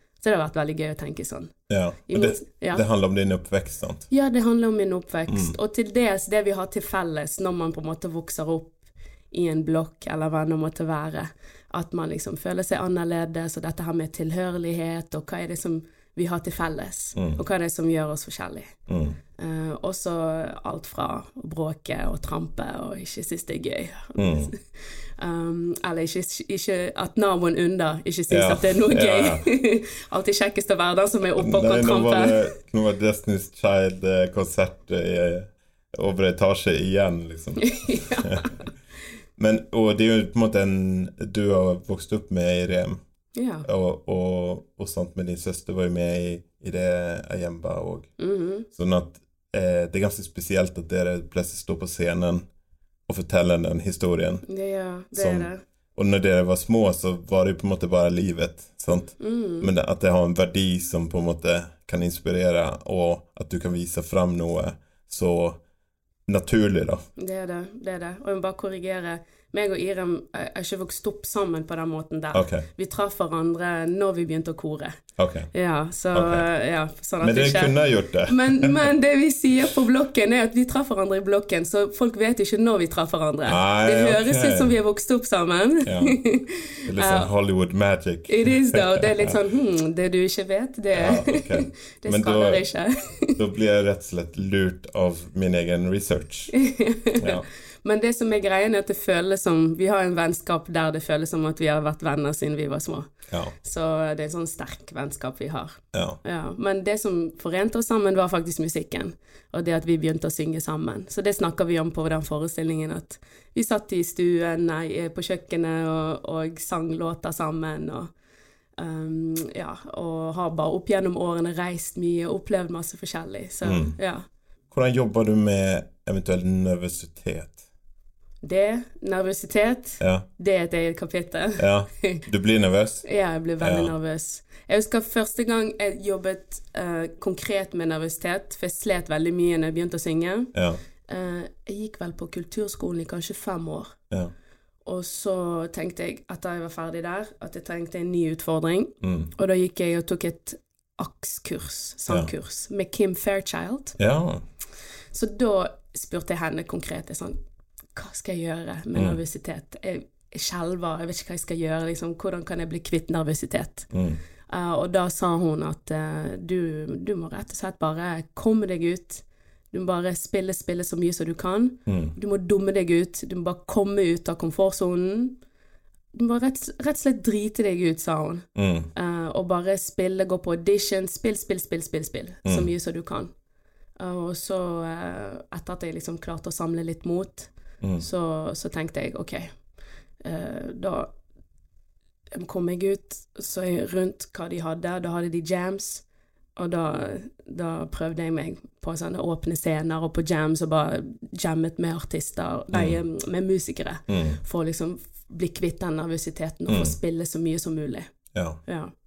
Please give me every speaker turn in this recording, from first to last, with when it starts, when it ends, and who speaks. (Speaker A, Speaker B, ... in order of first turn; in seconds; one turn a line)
Speaker A: 0.2-1.5
Speaker B: 1.7-4.1
Speaker A: 2.1-2.8
Speaker A: 4.1-18.8
Speaker B: 5.3-5.5
Speaker B: 18.9-19.2
Speaker A: 19.4-32.5
Speaker B: 24.2-24.5
Speaker B: 28.3-29.4
Speaker B: 31.4-38.6
Speaker A: 37.6-38.6
Speaker B: 39.4-43.0
Speaker A: 43.3-43.6
Speaker B: 43.6-48.1
Speaker A: 48.2-48.7
Speaker B: 48.7-52.4
Speaker B: 53.1-54.4
Speaker A: 54.5-55.6
Speaker B: 55.1-65.6
Speaker A: 59.2-59.7
Speaker B: 66.3-67.0
Speaker A: 67.2-75.0
Speaker B: 72.3-72.6
Speaker B: 75.2-75.5
Speaker A: 75.5-87.3
Speaker B: 76.1-76.4
Speaker B: 77.2-78.9
Speaker B: 83.5-84.7
Speaker B: 85.8-86.2
Speaker B: 86.8-89.3
Speaker A: 88.3-93.4
Speaker B: 90.9-92.6
Speaker B: 93.3-96.6
Speaker A: 96.5-118.1
Speaker B: 97.2-97.5
Speaker B: 105.9-106.2
Speaker A: 118.8-124.2
Speaker B: 123.6-123.9
Speaker B: 124.7-127.6
Speaker A: 128.4-132.2
Speaker B: 131.6-133.1
Speaker A: 133.0-140.5
Speaker B: 133.6-133.9
Speaker B: 140.5-140.8
Speaker A: 141.1-144.0
Speaker A: 144.8-154.0
Speaker B: 149.0-149.3
Speaker B: 154.0-154.4
Speaker A: 155.1-157.4
Speaker A: 157.9-163.9
Speaker B: 163.9-164.2
Speaker A: 164.5-175.4
Speaker B: 171.8-172.1
Speaker A: 176.1-183.3
Speaker B: 178.5-178.9
Speaker B: 182.4-182.7
Speaker A: 184.0-189.6
Speaker A: 190.2-191.1
Speaker A: 192.3-196.0
Speaker A: 196.6-208.1
Speaker B: 202.7-203.0
Speaker B: 204.1-204.4
Speaker B: 206.7-206.9
Speaker B: 208.3-208.6
Speaker A: 208.7-208.9